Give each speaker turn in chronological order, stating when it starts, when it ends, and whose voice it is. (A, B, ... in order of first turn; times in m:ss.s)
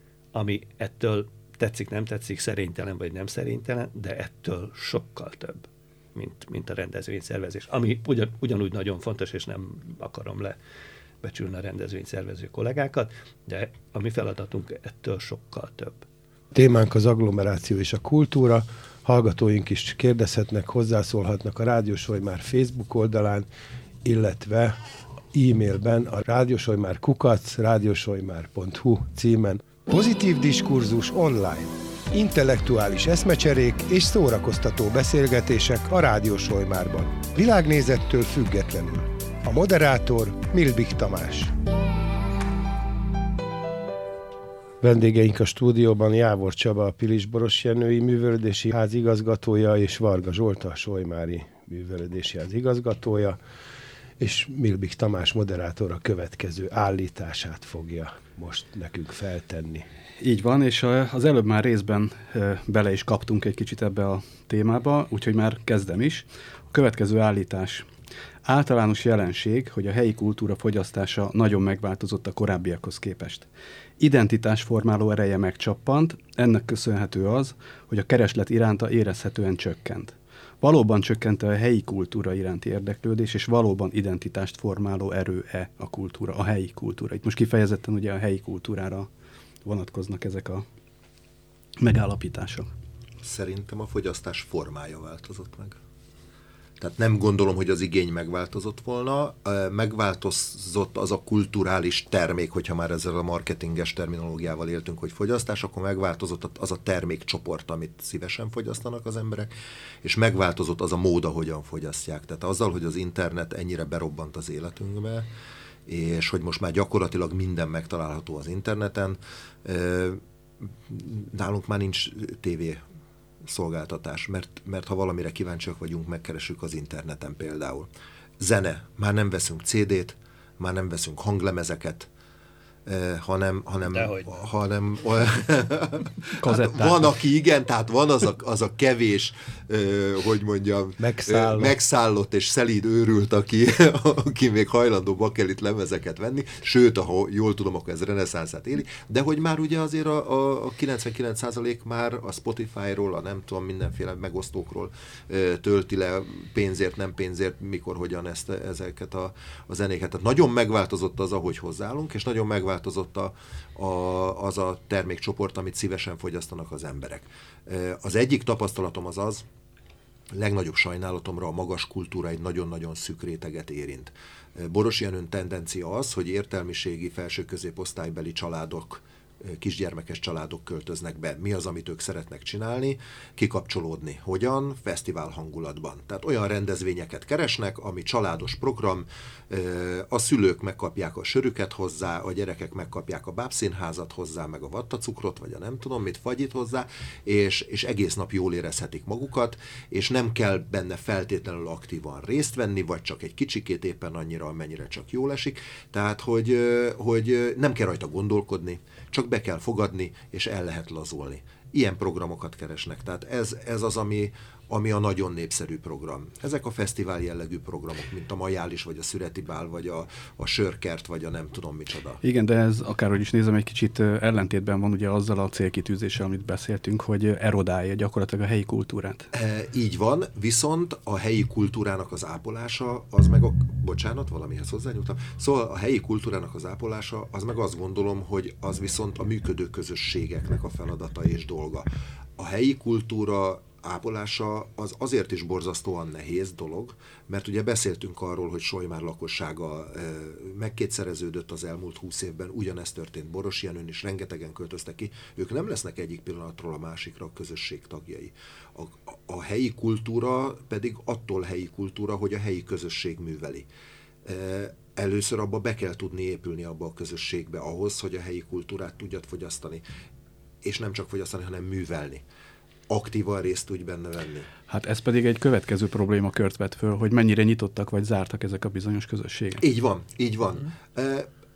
0:00.3-0:10.6 A
0:11.2-0:16.0 A
0:16.5-0:23.5 B
0:24.0-0:24.8 B
0:25.3-0:41.5 B
0:44.8-0:53.4 B
0:54.2-0:59.8 B
1:00.2-1:07.9 C
1:08.4-1:13.5 C
1:14.0-1:29.1 C
1:29.6-1:30.6 C
1:31.8-1:32.7 C
1:33.2-1:35.8 D
1:36.8-1:49.5 D
1:50.0-1:55.3 D
1:55.8-2:00.2 D
2:00.8-2:02.8 D
2:03.4-2:07.9 D
2:08.4-2:12.1 D
2:12.8-2:49.4 D
2:13.8-2:14.3 A
2:16.4-2:17.2 C
2:21.0-2:21.8 B
2:50.3-3:42.2 D
3:42.2-3:49.3 C
3:49.3-4:23.6 D
4:24.2-4:29.8 D
4:30.6-4:32.2 D
4:32.9-4:34.5 D
4:34.7-4:39.6 C
4:39.6-4:41.3 D